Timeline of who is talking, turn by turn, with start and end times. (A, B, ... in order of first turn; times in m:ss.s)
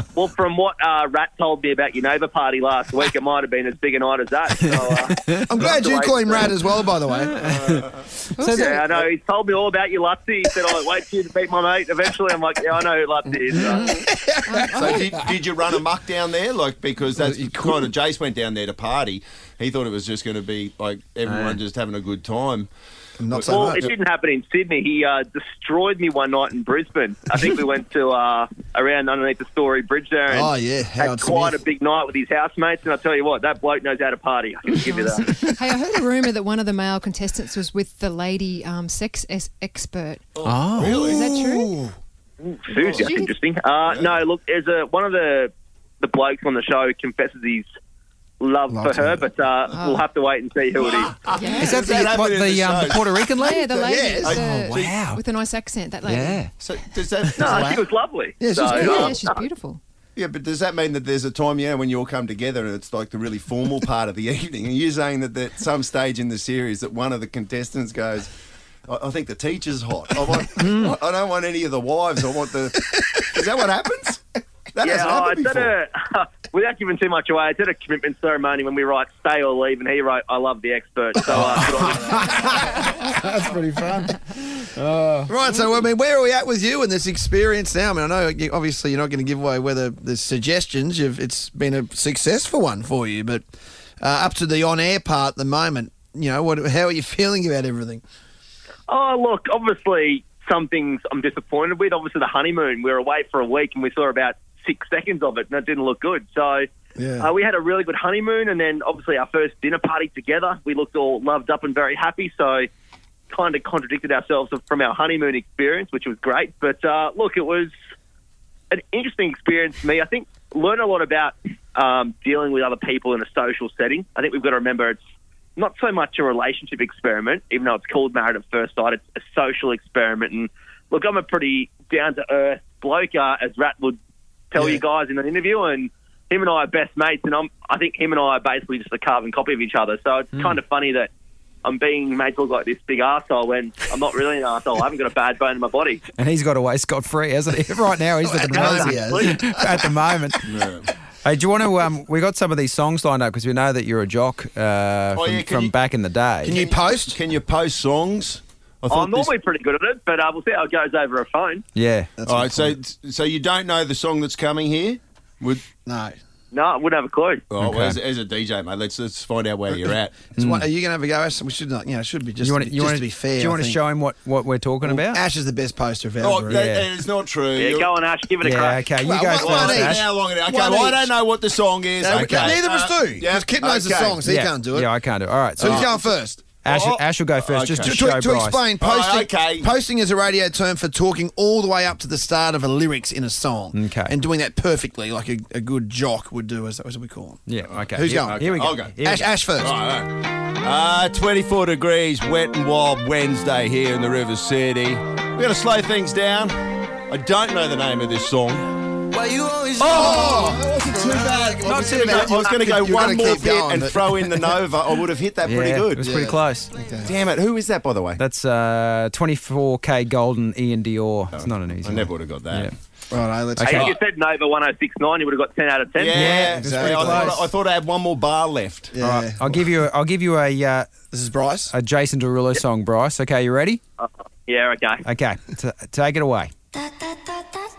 0:00.1-0:06.5 A
0:05.5-0:07.5 B
0:07.3-0:07.8 C
0:07.5-0:07.9 D
0:08.4-0:08.7 E
0:08.4-0:08.8 C
0:08.4-0:14.0 A
0:13.7-0:15.1 B
0:14.5-0:15.2 E
0:14.7-0:22.7 D
0:17.2-0:17.9 B
0:21.3-0:21.6 C
0:23.2-0:23.9 B
0:23.3-0:23.9 D
0:23.5-0:35.5 A
0:30.3-0:31.6 B
0:34.8-0:41.8 E
0:40.4-0:41.2 D
0:40.4-0:41.0 C
0:40.8-0:41.9 B
0:42.4-0:47.7 A
0:42.7-0:43.2 D
0:42.9-0:43.3 E
0:43.8-0:44.2 D
0:48.4-0:51.2 A
0:48.7-0:49.3 B
0:50.8-0:54.9 D
0:51.2-0:52.1 E
0:51.6-0:53.6 C
0:53.4-0:56.4 E
0:53.8-0:54.4 B
0:54.3-0:55.2 C
0:56.1-0:56.5 C
0:56.6-0:57.9 D
0:57.2-0:57.7 C
0:57.4-0:59.4 A
0:58.4-0:59.2 B
0:58.6-0:59.8 E
1:00.2-1:08.3 D
1:08.9-1:15.8 D
1:14.8-1:22.5 A
1:21.3-1:23.1 B
1:22.8-1:25.3 C
1:25.3-1:33.4 B
1:34.0-1:38.0 B
1:38.9-1:46.7 A
1:47.0-1:47.3 B
1:47.2-1:52.7 A
1:53.3-1:57.7 A
1:58.7-2:05.0 A
2:05.6-2:14.0 A
2:14.5-2:21.1 A
2:21.6-2:26.0 A
2:26.2-2:30.5 C
2:28.2-2:30.0 B
2:28.5-2:29.4 A
2:30.4-2:30.9 D
2:31.2-2:36.6 C
2:35.1-2:35.7 D
2:36.4-2:37.2 B
2:36.5-2:39.3 D
2:38.9-2:41.6 A
2:41.8-2:42.1 C
2:42.2-2:42.8 B
2:42.2-2:45.6 D
2:45.9-2:46.2 B
2:46.5-2:47.4 A
2:47.5-2:50.2 D
2:47.6-2:48.0 C
2:50.4-2:53.8 B
2:50.4-2:50.7 C
2:52.4-2:55.2 C
2:54.8-2:56.7 B
2:56.2-2:57.9 D
2:56.5-2:56.9 C
2:57.6-2:58.8 A
2:58.4-3:00.1 C
2:59.0-3:01.1 B
2:59.4-3:04.2 D
3:02.0-3:04.9 B
3:04.2-3:05.9 C
3:05.6-3:06.5 B
3:05.6-3:06.0 D
3:06.6-3:08.0 D
3:06.6-3:08.6 C
3:07.8-3:19.8 B
3:08.8-3:09.7 D
3:13.7-3:14.1 C
3:17.5-3:19.3 C
3:17.9-3:19.0 D
3:19.6-3:28.8 D
3:29.1-3:34.6 B
3:29.8-3:36.0 D
3:31.6-3:32.3 C
3:35.4-3:36.7 C
3:36.0-3:37.2 B
3:37.0-3:38.2 D
3:38.2-3:42.7 C
3:41.3-3:42.7 D
3:43.1-3:43.9 B
3:43.6-3:46.2 A
3:46.0-3:48.9 D
3:46.1-3:47.5 C
3:46.2-3:47.4 B
3:48.9-3:49.7 B
3:49.0-3:50.9 C
3:51.1-3:51.7 B
3:51.7-3:53.8 C
3:54.0-3:55.0 A
3:55.0-3:56.5 C